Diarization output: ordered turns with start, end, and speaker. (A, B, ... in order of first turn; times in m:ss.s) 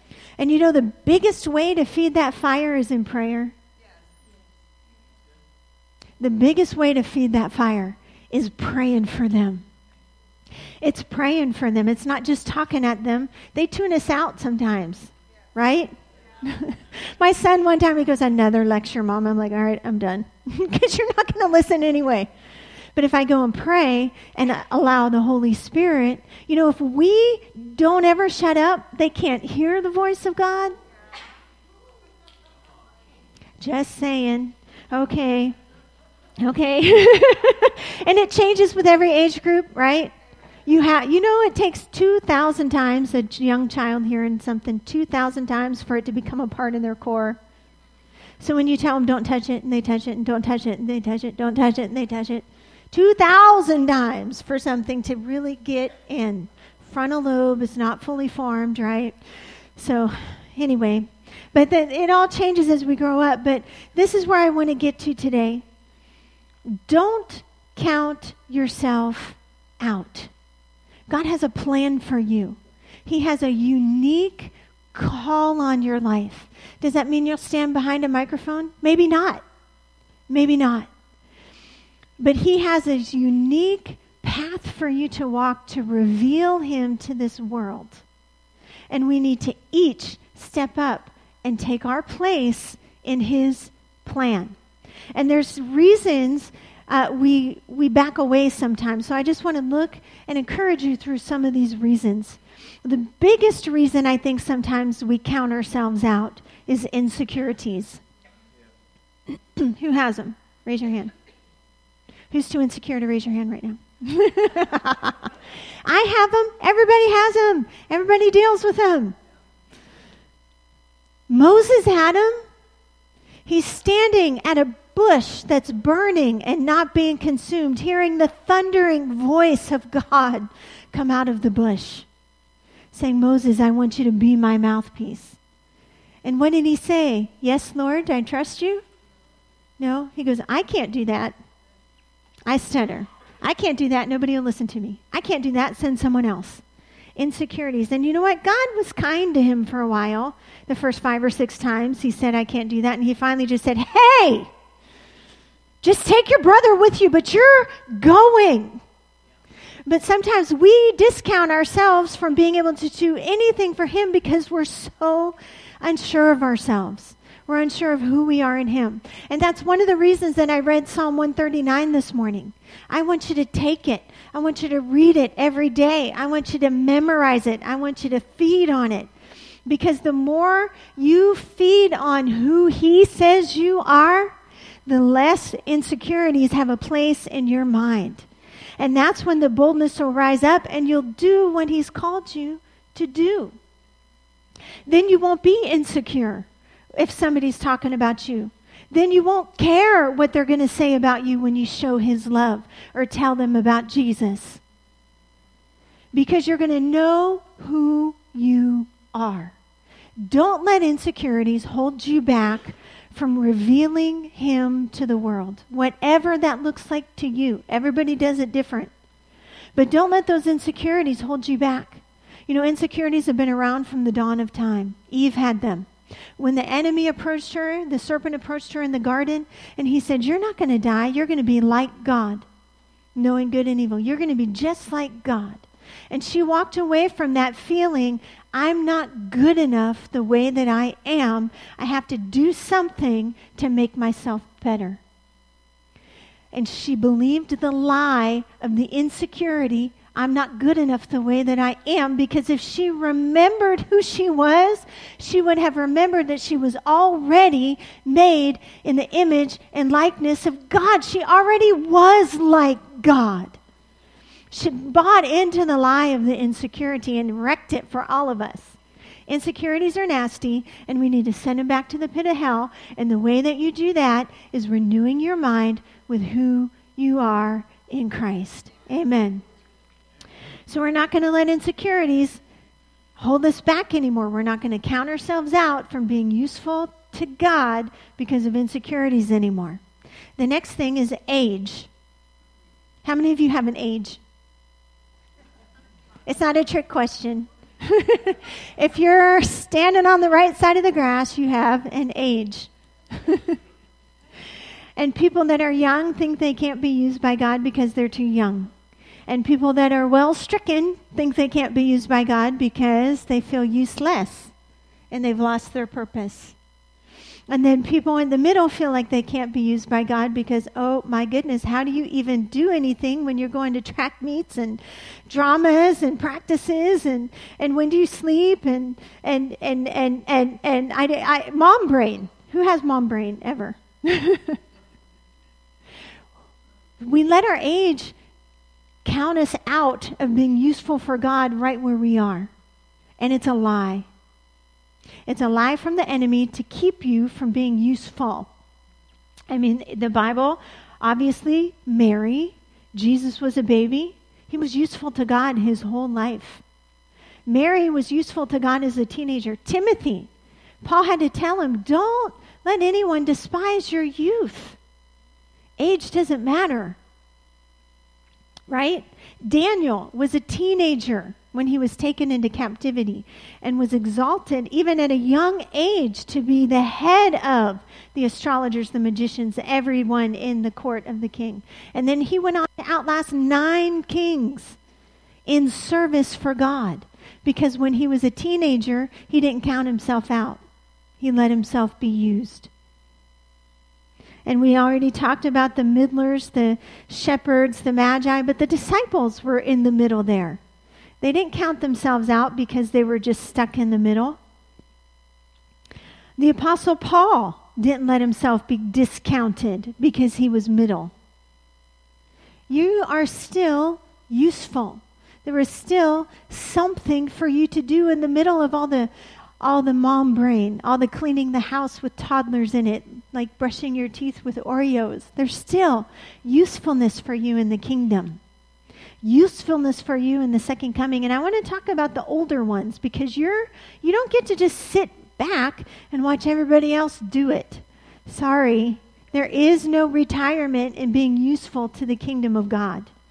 0:00.4-0:03.5 A
0:06.2-0:09.6 A
0:10.8-0:22.3 A
0:22.9-0:30.8 A
0:33.6-0:35.6 A
0:36.4-0:40.1 A
0:40.6-0:47.4 A
0:48.4-0:59.1 A
0:59.8-1:05.6 A
1:06.7-1:10.3 A
1:11.1-1:19.4 A
1:20.3-1:20.9 A
1:22.2-1:28.0 A
1:28.9-1:34.6 A
1:35.1-1:48.0 A
1:49.5-1:51.1 A
1:52.3-1:55.2 A
1:55.8-1:59.2 A
2:01.3-2:02.4 A
2:03.4-2:12.0 A
2:12.9-2:15.4 A
2:16.2-2:18.8 A
2:19.8-2:21.4 A
2:22.5-2:26.6 A
2:27.2-2:34.5 A
2:35.8-2:38.8 A
2:39.8-2:59.1 A
2:59.6-3:04.3 A
3:04.8-3:08.2 A
3:08.8-3:13.6 A
3:14.9-3:24.6 A
3:26.1-3:29.5 A
3:30.2-3:38.9 A
3:39.7-3:52.4 A
3:53.1-4:05.0 A
4:06.5-4:23.6 A
4:24.5-4:28.8 A
4:29.3-4:39.4 A
4:40.7-4:42.4 A
4:43.2-4:49.8 A
4:50.4-4:51.9 A
4:53.0-4:54.2 A
4:56.2-5:02.7 A
5:03.2-5:03.5 A
5:05.0-5:08.7 A
5:09.3-5:14.5 A
5:15.1-5:16.6 A
5:17.5-5:34.6 A
5:37.0-5:38.1 A
5:39.0-5:42.5 A
5:43.2-5:44.0 A
5:45.3-5:48.5 A
5:49.5-5:56.6 A
5:57.4-6:00.3 A
6:00.8-6:04.8 A
6:05.8-6:07.0 A
6:08.7-6:24.8 A
6:25.4-6:30.6 A
6:31.2-6:32.7 A
6:34.4-6:40.6 A
6:41.2-6:44.4 A
6:46.4-6:51.1 A
6:52.7-7:08.4 A
7:09.2-7:23.1 A